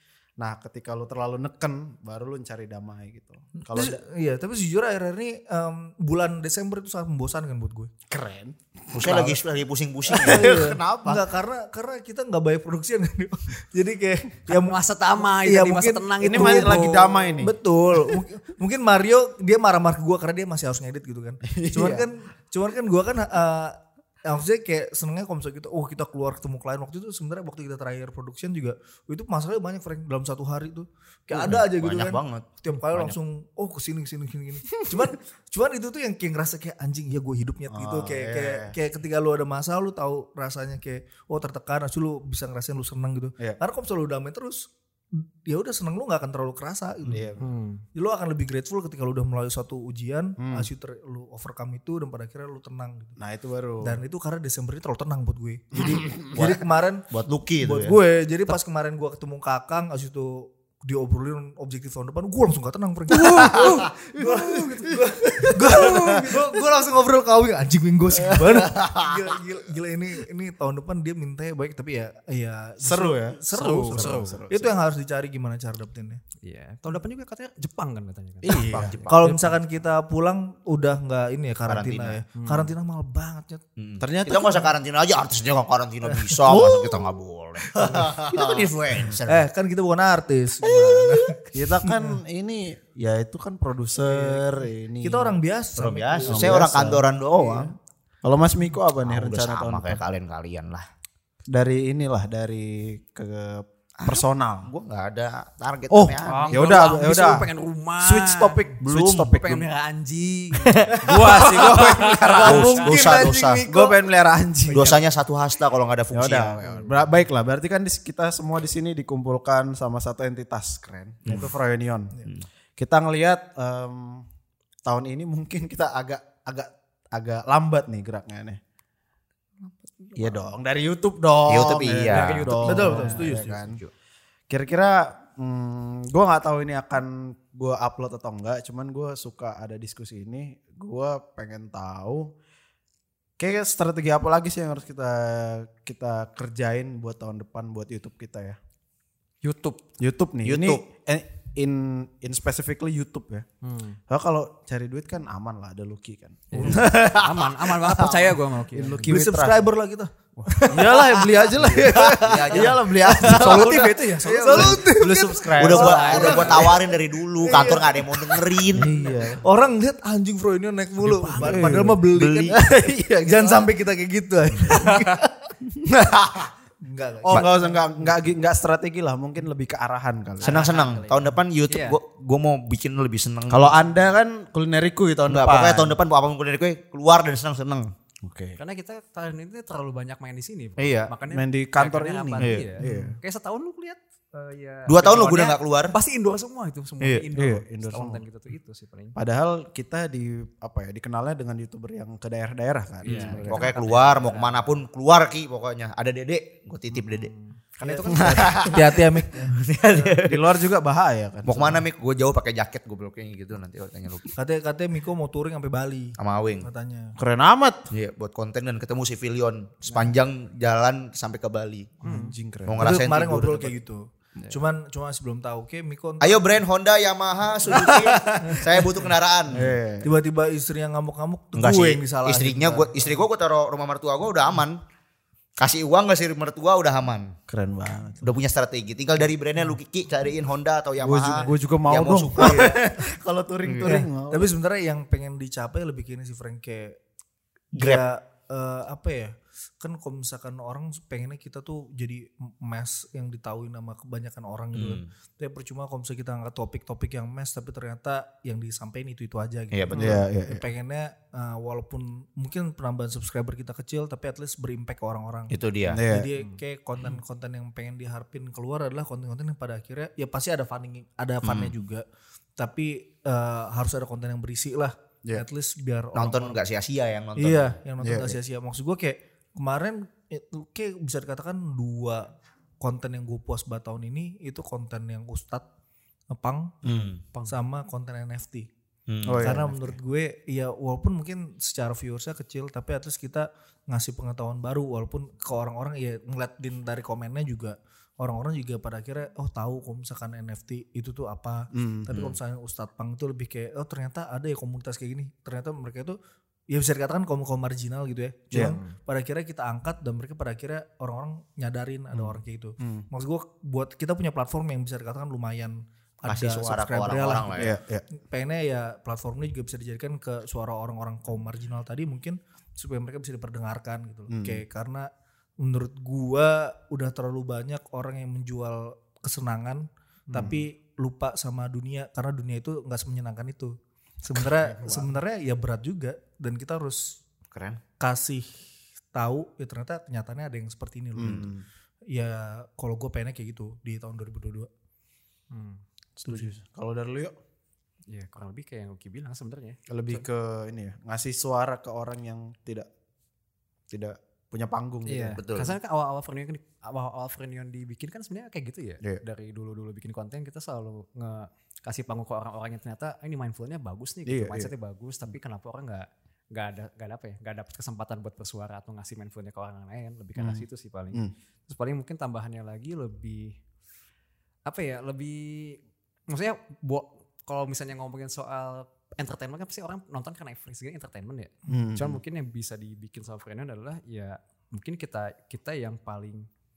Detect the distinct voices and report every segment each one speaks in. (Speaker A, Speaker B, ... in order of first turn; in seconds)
Speaker A: 0.4-4.0, 8.1-9.3, 10.3-10.6, 16.2-17.6, 21.4-22.1, 37.7-38.8, 47.1-47.5, 50.4-50.7, 53.2-54.0, 55.8-56.4, 63.1-66.5, 68.2-69.4, 72.8-74.7, 78.4-79.0, 84.0-84.7, 86.5-87.1, 87.8-88.7, 91.5-95.4, 96.3-97.6, 98.2-100.0, 101.5-104.7, 105.9-107.5, 108.0-109.7, 111.0-115.0, 116.1-122.1, 122.8-124.3, 124.8-128.6, 130.2-133.8, 134.5-142.3, 143.4-148.6, 150.0-153.5, 154.1-159.7, 160.7-166.7, 168.7-169.5, 171.4-172.0, 172.5-173.7, 175.8-176.5, 177.2-180.7, 183.5-186.0, 188.2-188.6, 191.3-193.2, 197.3-198.2, 199.2-203.7, 208.1-208.6, 210.2-211.8, 217.2-217.9, 222.1-222.9, 227.7-228.6, 229.5-230.1, 237.5-238.2, 241.0-244.5, 260.0-260.6, 265.9-266.3, 278.0-278.4, 286.8-287.1, 289.2-290.0, 301.7-302.1, 308.5-308.8, 312.1-313.1, 317.6-318.1, 324.3-324.6, 330.3-330.6, 334.7-335.1, 341.2-341.6, 346.2-347.3, 349.9-352.9, 353.9-355.4, 364.3-364.7, 370.4-371.3, 381.7-382.2
Speaker B: 3.6-7.9, 9.0-9.3, 10.1-47.4, 48.0-53.2, 53.8-57.1, 57.6-76.2, 79.1-83.6, 89.3-92.2, 94.0-96.8, 111.1-114.0, 132.6-133.6, 159.0-175.3, 176.8-178.2, 207.8-210.2, 214.3-217.2, 222.8-226.6, 227.7-228.9, 230.0-233.2, 242.4-242.8, 243.8-247.0, 247.7-272.1, 272.6-276.6, 277.4-285.7, 286.3-286.8, 287.5-288.7, 289.4-306.2, 306.7-337.2, 338.0-338.6, 339.1-341.5, 342.1-344.7
Speaker C: 8.9-11.3, 31.3-33.2, 56.4-58.0, 78.6-79.3, 81.7-82.2, 83.8-89.5, 90.7-91.1, 95.8-97.7, 99.0-100.9, 104.0-106.8, 108.8-109.4, 110.6-111.7, 112.4-113.7, 114.7-116.6, 121.3-121.5, 130.0-130.4, 131.5-132.7, 150.4-150.8, 161.8-163.7, 165.6-169.0, 172.0-172.6, 180.4-183.8, 185.3-187.9, 190.8-191.1, 192.4-192.7, 194.9-195.9, 197.0-197.3, 203.1-207.3, 208.3-210.4, 211.5-214.3, 216.2-216.7, 217.9-221.9, 222.7-223.8, 226.2-229.7, 231.6-234.8, 235.6-237.4, 238.2-242.8, 243.7-243.9, 247.8-248.1, 254.7-255.1, 259.7-260.2, 265.5-266.0, 271.4-271.7, 276.1-277.8, 286.9-287.2, 289.1-289.6, 302.1-302.4, 316.3-317.7, 337.5-337.8, 341.2-341.5, 355.4-355.8
Speaker D: 14.5-17.2, 47.4-47.8, 73.5-74.4, 76.4-79.6, 82.4-82.7, 106.2-108.6, 109.3-112.9, 116.7-117.0, 132.1-133.3, 149.4-149.8, 153.6-154.0, 156.5-159.1, 160.4-160.6, 163.3-166.7, 171.0-171.8, 174.7-175.1, 180.4-182.0, 188.6-199.2, 203.0-204.8, 206.9-208.7, 222.0-222.3, 287.3-287.6, 308.6-308.9, 345.5-346.5, 348.1-350.2, 355.1-373.5, 374.7-386.5